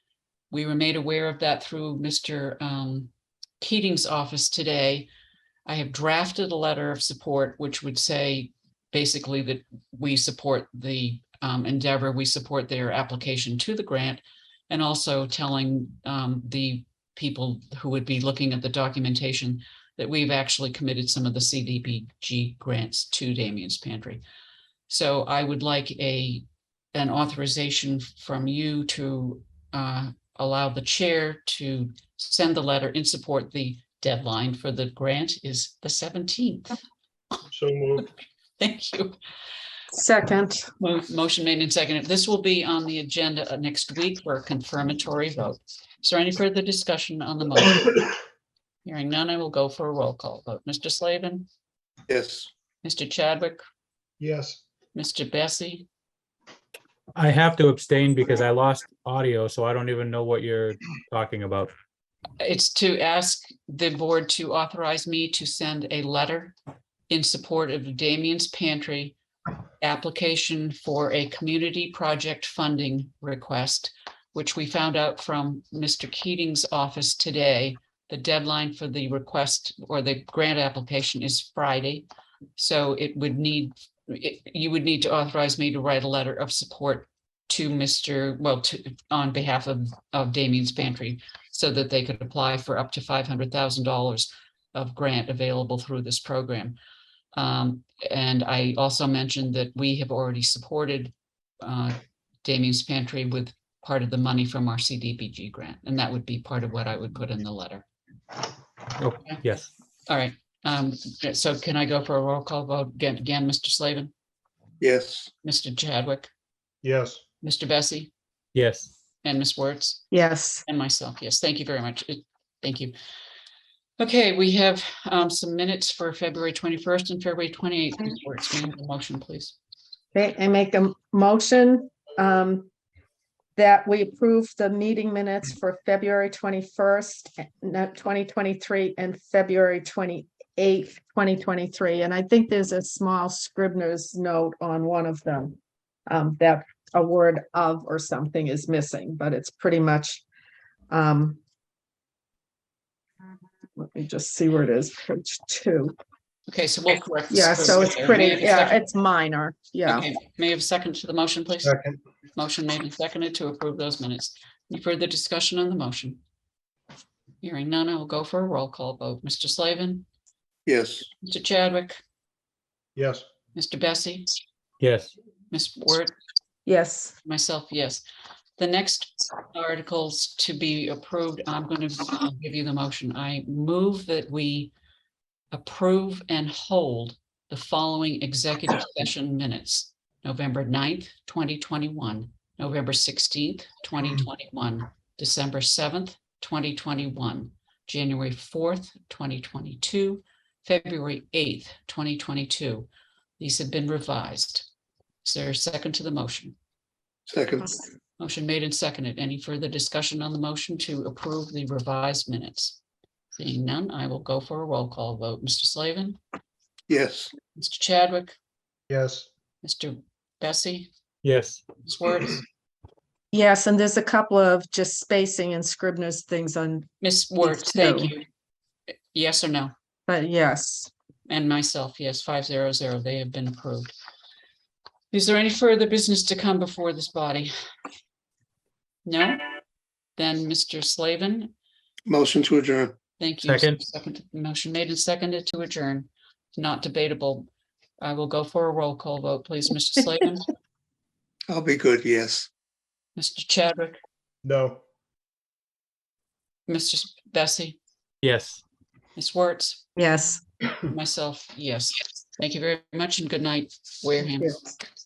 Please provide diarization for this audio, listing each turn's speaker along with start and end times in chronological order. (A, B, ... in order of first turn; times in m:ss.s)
0:00.5-0:03.1 A
0:03.6-0:05.1 A
0:05.7-0:24.2 A
0:24.9-0:36.8 A
0:37.5-0:38.1 B
0:38.6-0:39.2 A
0:39.9-0:40.7 C
0:40.8-0:48.0 A
0:48.8-0:51.5 A
0:52.1-0:52.5 D
0:52.8-0:53.6 A
0:54.2-0:54.6 B
0:55.0-0:55.9 A
0:57.2-1:01.7 E
1:02.4-1:06.6 A
1:07.1-1:09.2 A
1:09.8-1:36.8 A
1:37.3-1:47.9 A
1:49.0-1:49.7 E
1:50.1-1:54.1 A
1:54.8-1:55.3 D
1:55.4-1:56.3 A
1:56.8-1:57.2 B
1:57.4-1:58.1 A
1:58.6-1:58.9 E
1:59.2-2:00.0 A
2:00.1-2:00.6 C
2:00.7-2:02.9 A
2:04.0-2:09.6 A
2:10.1-2:12.7 C
2:13.6-2:30.2 C
2:30.9-2:31.4 C
2:33.8-2:36.0 C
2:36.5-2:38.9 A
2:37.3-2:40.1 C
2:39.9-2:41.8 A
2:41.6-2:42.0 B
2:42.4-2:46.2 A
2:47.4-2:50.1 A
2:50.7-2:51.1 D
2:51.2-2:52.0 A
2:53.0-2:53.2 B
2:53.6-2:54.3 A
2:54.8-2:55.1 E
2:55.5-2:56.1 A
2:56.7-2:57.2 C
2:57.2-2:58.0 A
2:58.6-3:04.7 A
3:05.5-3:22.9 A
3:23.4-3:24.7 A
3:25.2-3:26.6 A
3:27.3-3:27.8 D
3:28.2-3:32.8 A
3:33.4-3:36.2 A
3:36.9-3:37.3 D
3:37.6-3:38.4 A
3:38.9-3:39.3 B
3:39.6-3:40.9 A
3:41.2-3:41.6 E
3:41.9-3:42.4 A
3:43.3-3:46.9 C
3:47.0-3:48.3 A
3:47.4-3:48.1 C
3:49.1-3:49.7 A
3:50.1-3:50.9 C
3:51.3-3:54.0 A
3:55.1-3:57.5 A
3:59.0-3:59.5 A
4:00.2-4:01.5 A
4:02.1-4:03.0 D
4:03.2-4:07.5 A
4:03.4-4:03.8 E
4:08.0-4:10.5 A
4:11.5-4:12.5 D
4:13.2-4:14.0 A
4:14.4-4:14.8 B
4:16.7-4:17.8 A
4:18.2-4:18.6 E
4:19.2-4:19.8 A
4:20.0-4:20.4 C
4:20.9-4:24.7 A